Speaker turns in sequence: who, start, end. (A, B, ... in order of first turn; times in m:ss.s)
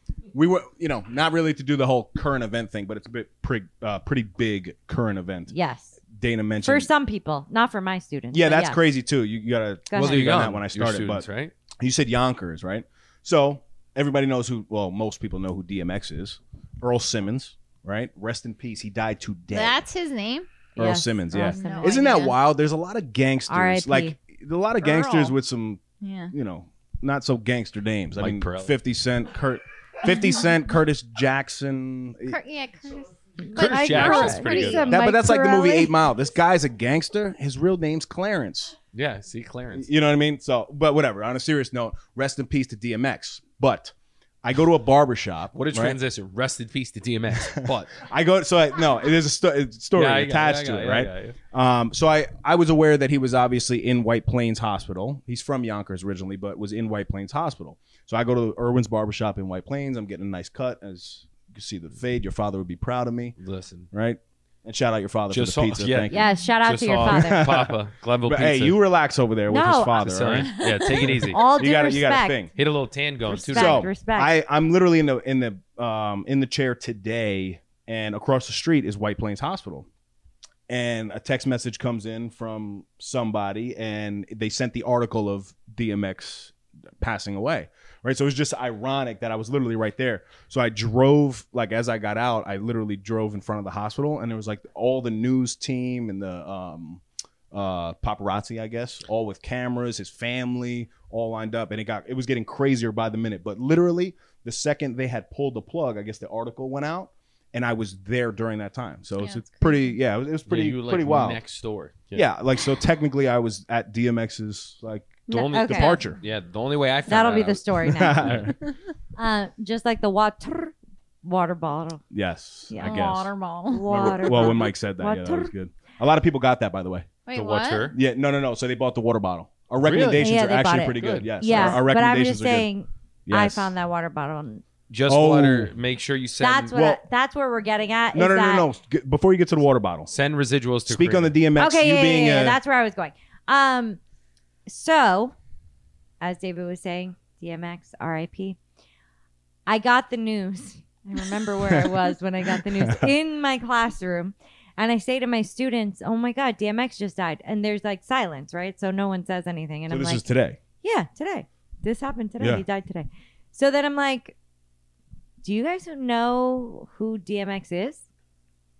0:00.3-0:05.5 A
0:05.5-0:05.9 B
0:06.1-0:06.9 A
0:06.6-0:08.8 B
0:08.3-0:11.2 A
0:09.9-0:10.2 B
0:09.9-0:11.5 C
0:11.8-0:19.8 A
0:19.5-0:20.5 D
0:20.8-0:22.1 B
0:20.8-0:32.4 A
0:21.3-0:22.4 D
0:23.5-0:24.2 B
0:24.8-0:25.3 D
0:26.0-0:26.3 D
0:28.2-0:28.7 C
0:32.3-0:35.0 D
0:33.4-0:35.9 B
0:33.6-0:34.9 C
0:34.9-0:38.8 A
0:38.9-0:39.9 C
0:39.7-0:46.0 A
0:45.5-0:48.0 C
0:47.4-1:03.4 A
0:49.9-0:51.4 C
1:03.4-1:03.9 C
1:03.9-1:06.2 A
1:05.3-1:08.8 C
1:06.1-1:07.5 B
1:07.0-1:12.5 A
1:09.5-1:10.0 B
1:09.9-1:11.4 C
1:10.6-1:11.2 D
1:11.3-1:12.4 B
1:12.6-1:13.9 C
1:13.3-1:14.3 B
1:13.4-1:19.9 A
1:20.7-1:51.4 A
1:49.2-1:50.0 D
1:50.5-1:52.3 C
1:52.1-1:56.2 A
1:55.3-1:56.0 B
1:55.3-1:58.5 C
1:57.1-1:58.5 B
1:57.8-1:58.5 A
1:59.2-2:02.0 B
2:02.1-2:03.3 A
2:02.7-2:03.0 B
2:02.8-2:04.6 D
2:03.7-2:05.5 B
2:03.9-2:07.1 A
2:07.2-2:08.0 D
2:07.3-2:07.9 C
2:07.9-2:12.7 A
2:09.8-2:10.3 C
2:10.2-2:14.6 B
2:10.9-2:11.8 C
2:13.2-2:13.7 A
2:14.9-2:16.7 C
2:15.1-2:15.7 A
2:16.4-2:18.7 B
2:16.7-2:17.0 A
2:18.1-2:20.1 A
2:20.1-2:21.4 C
2:20.9-2:22.6 A
2:21.6-2:24.0 B
2:24.7-2:25.3 B
2:26.2-2:28.6 B
2:29.7-2:40.2 B
2:31.6-2:33.1 A
2:39.9-2:40.6 A
2:40.8-2:44.3 B
2:42.4-2:42.6 A
2:45.4-2:48.0 B